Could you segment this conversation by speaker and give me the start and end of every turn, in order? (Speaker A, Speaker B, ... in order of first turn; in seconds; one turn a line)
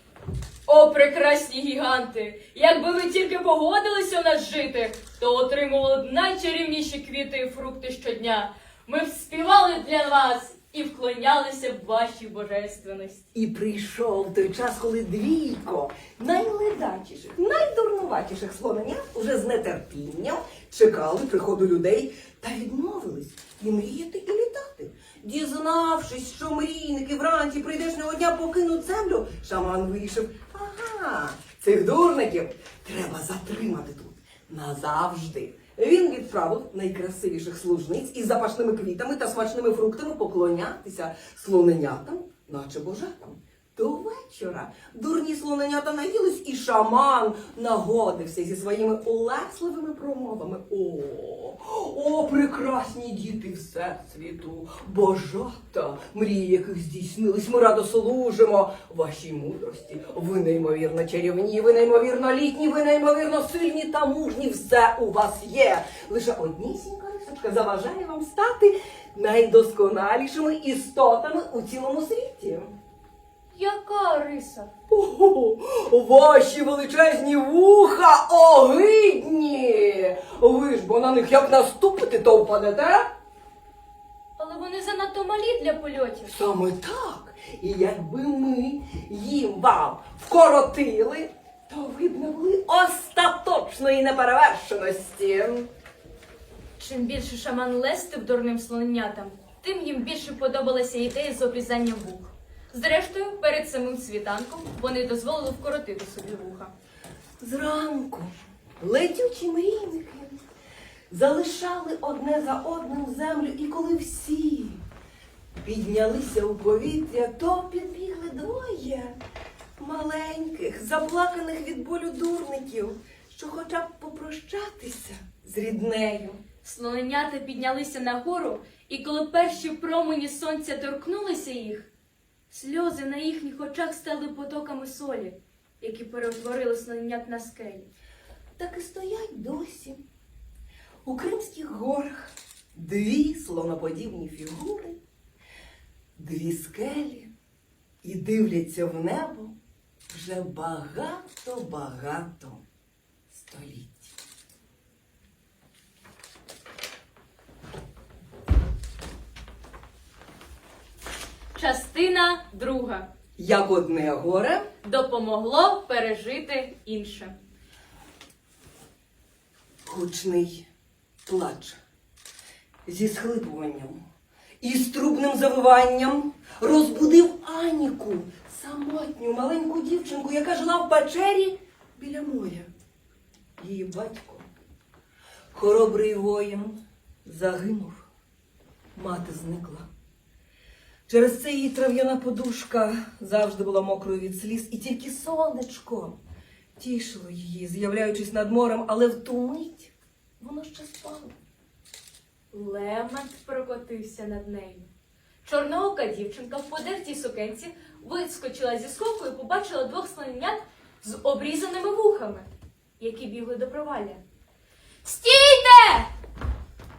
Speaker A: 0.7-13.2
Speaker B: 13.3-72.7
Speaker A: 73.5-74.7
Speaker B: 74.9-83.1
Speaker A: 84.4-86.3
Speaker B: 86.2-95.7
Speaker A: 96.8-106.7
Speaker B: 107.4-110.4
Speaker B: 111.1-114.8
Speaker B: 115.6-119.2
Speaker B: 119.8-126.4
Speaker A: 126.6-131.9
Speaker A: 132.5-137.9
Speaker B: 138.6-140.0
Speaker B: 141.0-145.0
Speaker B: 146.2-147.3
Speaker B: 148.0-149.6
Speaker B: 150.1-152.6
Speaker B: 153.3-154.1
Speaker A: 161.5-163.1
Speaker B: 163.4-164.6
Speaker A: 164.8-167.4
Speaker B: 169.8-170.7
Speaker B: 171.2-171.8
Speaker B: 172.9-174.0
Speaker B: 174.6-182.7
Speaker B: 183.6-184.5
Speaker B: 185.5-188.1
Speaker B: 189.0-189.9
Speaker B: 191.1-196.2
Speaker B: 196.8-201.3
Speaker A: 202.5-204.9
Speaker A: 205.4-212.5
Speaker A: 213.0-214.2
Speaker A: 215.0-216.1